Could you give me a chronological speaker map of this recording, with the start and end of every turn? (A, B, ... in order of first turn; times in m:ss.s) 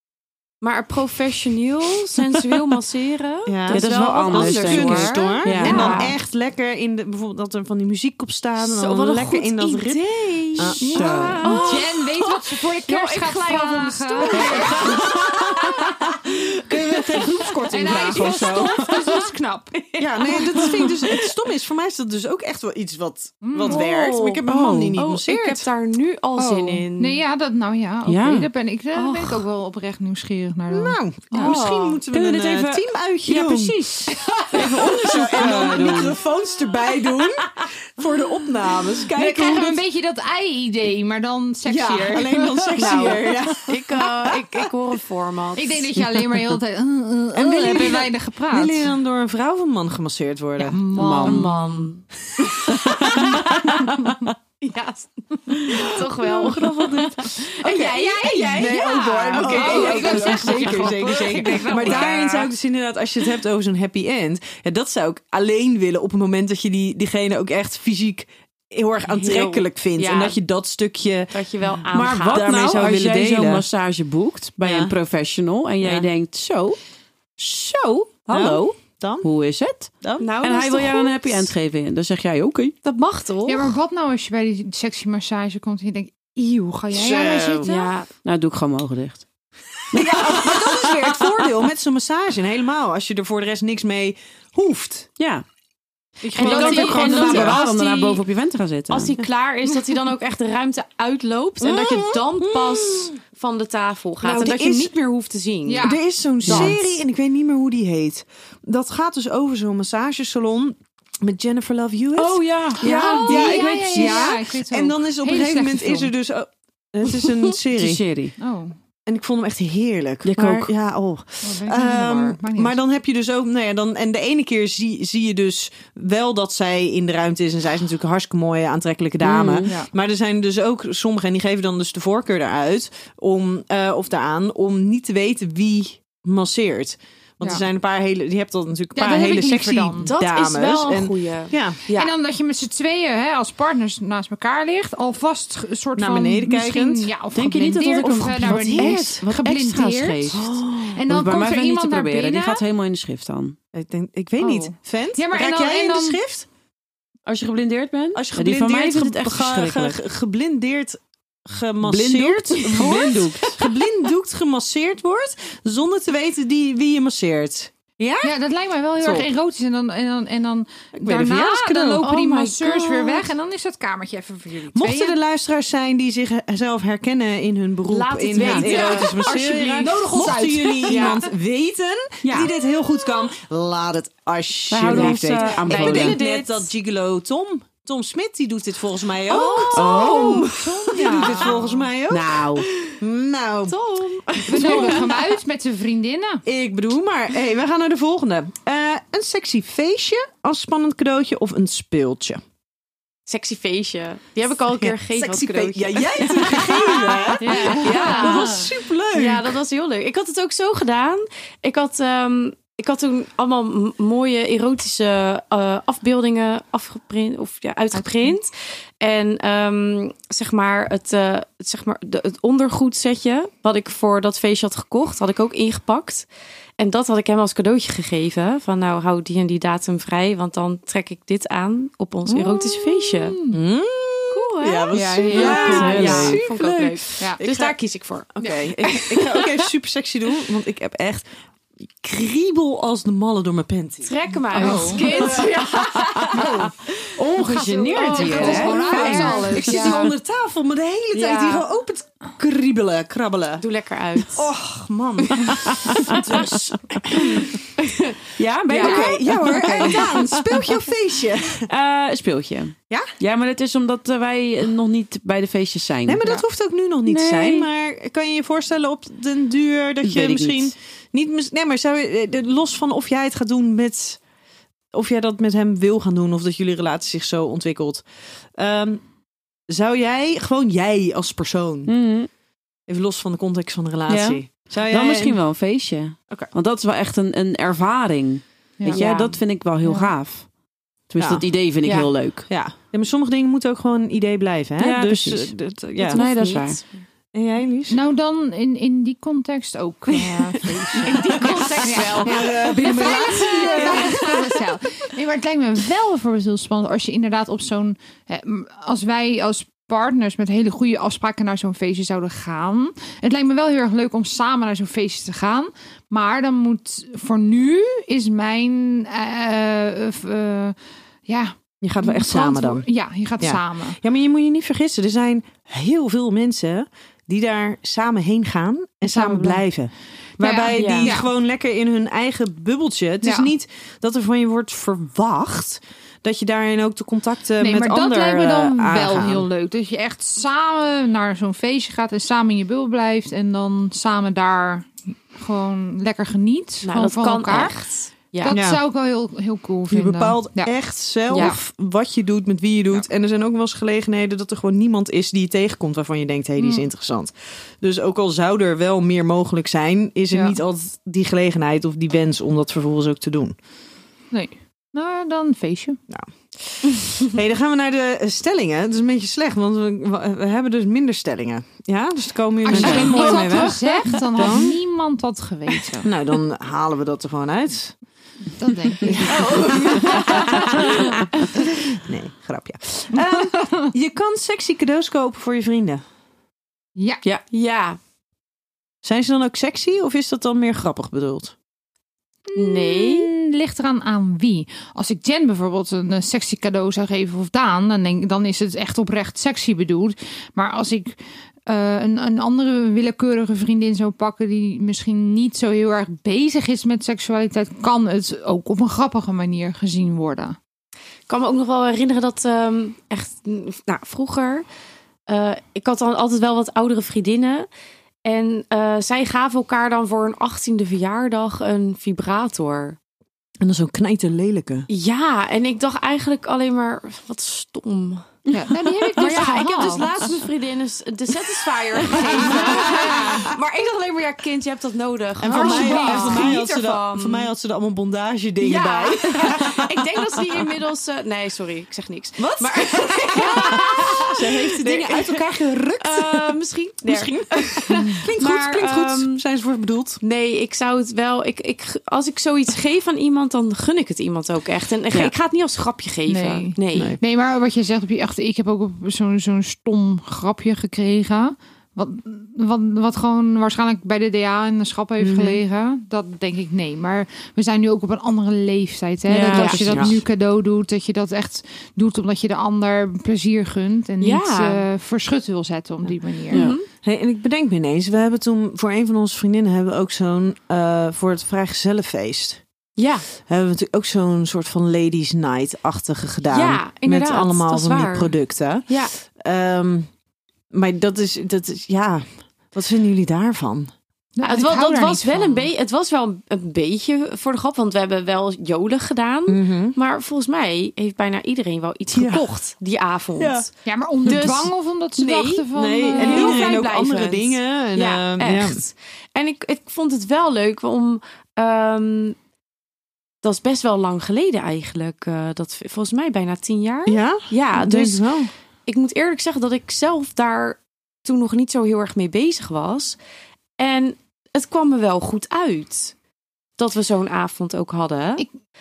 0:00.6-0:06.2 A
0:03.5-0:10.0 B
0:03.7-0:06.1 C
0:05.1-0:06.1 D
0:08.6-0:15.9 A
0:10.5-0:11.8 B
0:10.8-0:15.1 D
0:11.2-0:11.4 C
0:14.5-0:19.3 C
0:17.0-0:17.3 A
0:17.7-0:19.8 D
0:19.7-0:21.3 A
0:20.0-0:25.6 B
0:23.4-0:23.8 D
0:23.7-0:24.4 A
0:24.5-0:25.0 C
0:25.0-0:27.2 A
0:26.4-0:31.6 D
0:28.1-0:28.5 C
0:29.0-0:29.4 A
0:30.7-0:33.8 B
0:31.3-0:32.0 A
0:31.4-0:36.2 C
0:34.6-0:39.8 B
0:35.2-0:36.0 D
0:39.1-0:42.8 D
0:41.7-0:44.7 B
0:42.8-0:45.9 A
0:45.6-0:48.9 D
0:47.4-0:50.9 B
0:50.6-0:51.9 D
0:50.9-0:51.6 C
0:51.2-0:52.0 A
0:52.4-0:53.6 B
0:53.0-0:54.3 C
0:54.6-1:02.5 A
0:55.8-1:11.3 B
0:57.7-1:02.5 D
1:09.1-1:10.4 A
1:11.3-1:12.5 A
1:11.9-1:16.8 C
1:12.1-1:13.6 B
1:14.6-1:14.9 A
1:17.4-1:22.8 C
1:18.3-1:19.3 B
1:20.0-1:20.3 B
1:20.2-1:21.5 A
1:22.8-1:23.7 A
1:23.5-1:28.0 D
1:26.9-1:27.7 B
1:27.6-1:28.1 A
1:28.2-1:29.2 C
1:29.9-1:35.1 B
1:29.9-1:31.4 C
1:35.2-1:35.4 C
1:36.2-1:37.6 B
1:36.3-1:37.6 D
1:36.4-1:38.2 A
1:36.5-1:39.2 C
1:38.9-1:45.9 A
1:41.6-1:43.1 B
1:44.2-1:44.9 B
1:45.7-1:46.8 D
1:45.8-1:58.0 B
1:46.4-1:46.9 C
1:52.1-1:54.4 C
1:52.8-1:56.1 D
1:57.7-1:58.3 C
1:58.4-1:58.8 D
1:59.1-2:21.8 B
2:00.2-2:00.7 C
2:01.4-2:02.8 D
2:09.2-2:09.7 C
2:19.0-2:20.1 D
2:20.0-2:22.1 A
2:21.9-2:30.4 D
2:26.0-2:27.1 B
2:27.3-2:33.6 C
2:28.5-2:29.1 B
2:30.3-2:31.0 B
2:30.9-2:32.6 D
2:33.7-2:36.5 B
2:34.4-2:36.2 D
2:37.2-2:40.0 C
2:38.2-2:48.3 B
2:41.8-2:43.6 C
2:48.2-2:55.2 D
2:49.0-2:49.3 B
2:51.0-2:52.0 B
2:52.0-2:53.3 A
2:54.7-3:12.5 B
2:57.9-3:00.0 A
2:58.4-2:58.7 C
2:58.4-3:01.2 D
3:00.8-3:01.2 A
3:02.2-3:02.5 C
3:04.7-3:06.2 C
3:04.9-3:06.7 A
3:09.3-3:11.7 A
3:09.4-3:11.8 D
3:12.1-3:12.7 C
3:13.0-3:13.8 B
3:13.7-3:15.3 A
3:14.5-3:16.4 D
3:14.5-3:15.0 B
3:16.5-3:22.4 B
3:23.3-3:46.3 A
3:24.8-3:29.6 B
3:27.4-3:28.7 D
3:37.9-3:38.3 D
3:46.8-3:53.4 A
3:52.3-3:53.6 D
3:53.5-3:57.8 B
3:54.3-3:59.5 A
3:54.9-3:56.1 D
3:55.3-3:56.4 C
3:58.3-4:01.2 B
4:02.0-4:05.6 B
4:04.0-4:06.5 A
4:04.5-4:05.3 D
4:05.8-4:06.5 C
4:06.3-4:06.7 D
4:06.4-4:06.7 B
4:07.2-4:09.6 C
4:07.4-4:10.0 D
4:07.9-4:10.2 A
4:08.4-4:13.6 B
4:11.1-4:11.7 A
4:13.6-4:14.5 A
4:14.3-4:17.5 B
4:15.2-4:15.5 A
4:15.6-4:16.2 C
4:17.8-4:18.2 A
4:18.4-4:20.1 C
4:18.7-4:20.4 A
4:18.8-4:21.7 B
4:21.7-4:26.4 C
4:26.1-4:34.2 B
4:27.1-4:27.7 C
4:30.0-4:30.7 C
4:34.9-4:38.0 B
4:38.6-4:39.0 B
4:39.7-4:41.9 B
4:41.9-4:42.3 C
4:42.9-4:45.4 B
4:44.1-4:50.5 C
4:48.8-4:49.0 D
4:49.0-4:49.4 A
4:49.8-4:50.1 D
4:51.1-4:52.5 C
4:51.2-4:51.5 B
4:51.8-4:52.1 A
4:52.5-4:56.2 B
4:54.8-4:56.8 C
4:56.1-4:57.0 A
4:57.3-4:58.0 B
4:57.9-5:24.0 D
5:00.2-5:04.5 B
5:01.0-5:04.2 A
5:21.8-5:39.5 B
5:29.0-5:29.7 D
5:30.4-5:31.3 D
5:30.7-5:31.2 A
5:33.2-5:33.5 D
5:37.6-5:47.8 D
5:46.8-5:48.6 A
5:48.4-5:50.8 D
5:48.5-5:48.8 B
5:49.9-6:03.6 B
5:51.3-5:51.6 D
5:56.6-5:56.8 D
6:00.3-6:00.6 D
6:04.3-6:06.0 D
6:06.1-6:14.8 B
6:12.6-6:16.1 D
6:12.7-6:13.3 C
6:13.0-6:13.8 A
6:16.0-6:18.0 B
6:18.6-6:19.6 D
6:19.0-6:26.0 B
6:19.3-6:20.6 A
6:20.1-6:20.4 D
6:23.2-6:23.9 D
6:27.2-6:28.0 A
6:29.0-6:31.6 B
6:32.5-6:50.6 D
6:32.6-6:33.3 A
6:51.3-6:54.6 A
6:55.3-6:57.7 A
6:58.2-7:03.0 A
7:03.6-7:04.9 B
7:04.9-7:08.4 A
7:08.5-7:09.3 C
7:08.5-7:10.1 D
7:09.2-7:17.5 A
7:09.4-7:09.9 B
7:12.1-7:13.5 D
7:12.2-7:13.5 B
7:15.4-7:20.7 B
7:15.4-7:16.6 D
7:18.6-7:25.4 A
7:22.4-7:30.2 B
7:26.0-7:29.4 A
7:27.9-7:28.2 D
7:30.2-7:37.2 A
7:36.3-7:56.7 D
7:36.9-7:37.2 B
7:45.2-7:45.6 B
7:49.3-7:50.1 C
7:49.5-7:49.9 A
7:49.6-7:50.2 B
7:54.2-7:54.8 A
7:56.5-7:56.8 C
7:56.5-7:56.9 A
7:57.0-8:02.6 B
8:03.0-8:03.3 A
8:03.4-8:10.1 B
8:06.4-8:08.3 A
8:08.8-8:09.1 A
8:10.7-8:13.9 B
8:14.4-8:15.7 D
8:14.4-8:23.7 A
8:19.5-8:20.0 B
8:22.1-8:22.4 B
8:23.4-8:23.7 B
8:23.9-8:26.9 D
8:24.2-8:24.5 B
8:24.2-8:32.4 A
8:25.8-8:28.8 B
8:33.4-8:43.2 A
8:37.1-8:38.5 B
8:43.8-8:46.2 A
8:46.8-8:48.5 A